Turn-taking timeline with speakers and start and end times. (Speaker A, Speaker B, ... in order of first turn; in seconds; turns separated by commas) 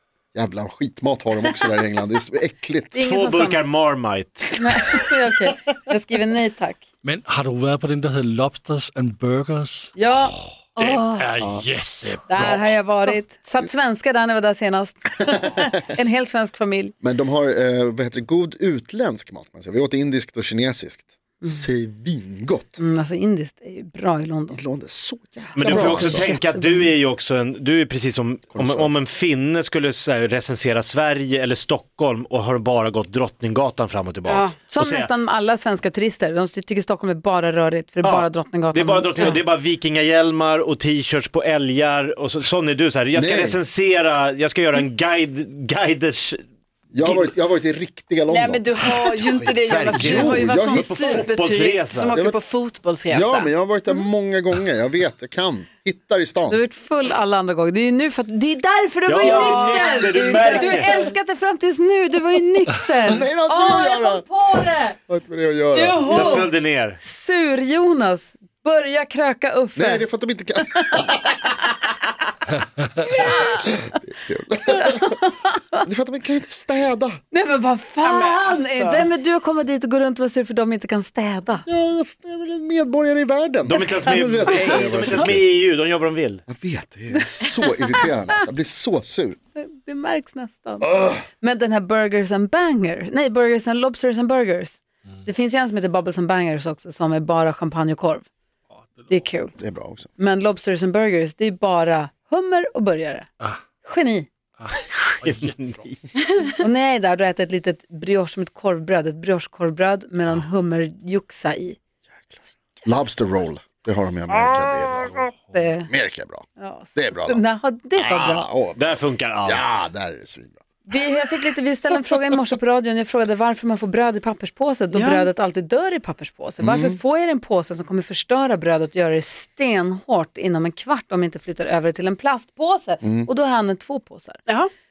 Speaker A: 0.3-3.0, Speaker B: 2.9-3.6, Speaker C: 3.0-4.6, Speaker B: 4.5-6.8, Speaker D: 7.0-9.9, Speaker B: 9.9-11.3, Speaker D: 10.8-12.7, Speaker B: 12.3-16.9, Speaker A: 17.0-22.8, Speaker B: 22.8-24.6, Speaker A: 24.5-26.3, Speaker C: 25.6-35.1, Speaker B: 25.6-26.9, Speaker A: 28.5-28.9, Speaker E: 34.3-34.6, Speaker B: 34.7-39.4, Speaker C: 38.0-46.4, Speaker A: 43.1-43.6, Speaker A: 46.9-49.2, Speaker E: 48.3-53.5, Speaker C: 49.2-52.1, Speaker A: 49.9-51.2, Speaker A: 52.1-52.4, Speaker A: 53.1-56.6, Speaker B: 56.5-65.0, Speaker C: 59.1-61.0, Speaker E: 59.2-61.0, Speaker A: 63.0-64.3, Speaker A: 65.0-66.5, Speaker B: 65.7-70.0, Speaker C: 66.1-67.0, Speaker A: 69.7-71.4, Speaker B: 70.6-71.1, Speaker B: 73.0-73.8, Speaker A: 73.7-75.1, Speaker B: 74.7-75.8, Speaker A: 75.8-77.2, Speaker B: 77.3-81.7, Speaker E: 78.0-79.1, Speaker A: 81.7-85.4, Speaker C: 83.6-86.4, Speaker B: 84.1-85.2, Speaker E: 84.5-85.2, Speaker A: 86.5-89.4, Speaker B: 87.1-88.1, Speaker B: 89.6-98.2, Speaker A: 90.8-91.2, Speaker D: 98.8-99.2, Speaker B: 99.1-99.5, Speaker A: 99.6-100.1, Speaker B: 100.2-103.3, Speaker B: 103.8-104.3, Speaker D: 104.6-105.5, Speaker C: 104.9-106.0, Speaker B: 106.6-111.8, Speaker A: 112.8-115.3, Speaker B: 115.5-115.9, Speaker A: 115.9-117.4, Speaker B: 116.6-118.5, Speaker A: 118.0-120.6, Speaker C: 118.8-119.9, Speaker B: 120.9-134.4, Speaker E: 124.9-125.3, Speaker A: 126.6-127.0, Speaker A: 133.0-133.3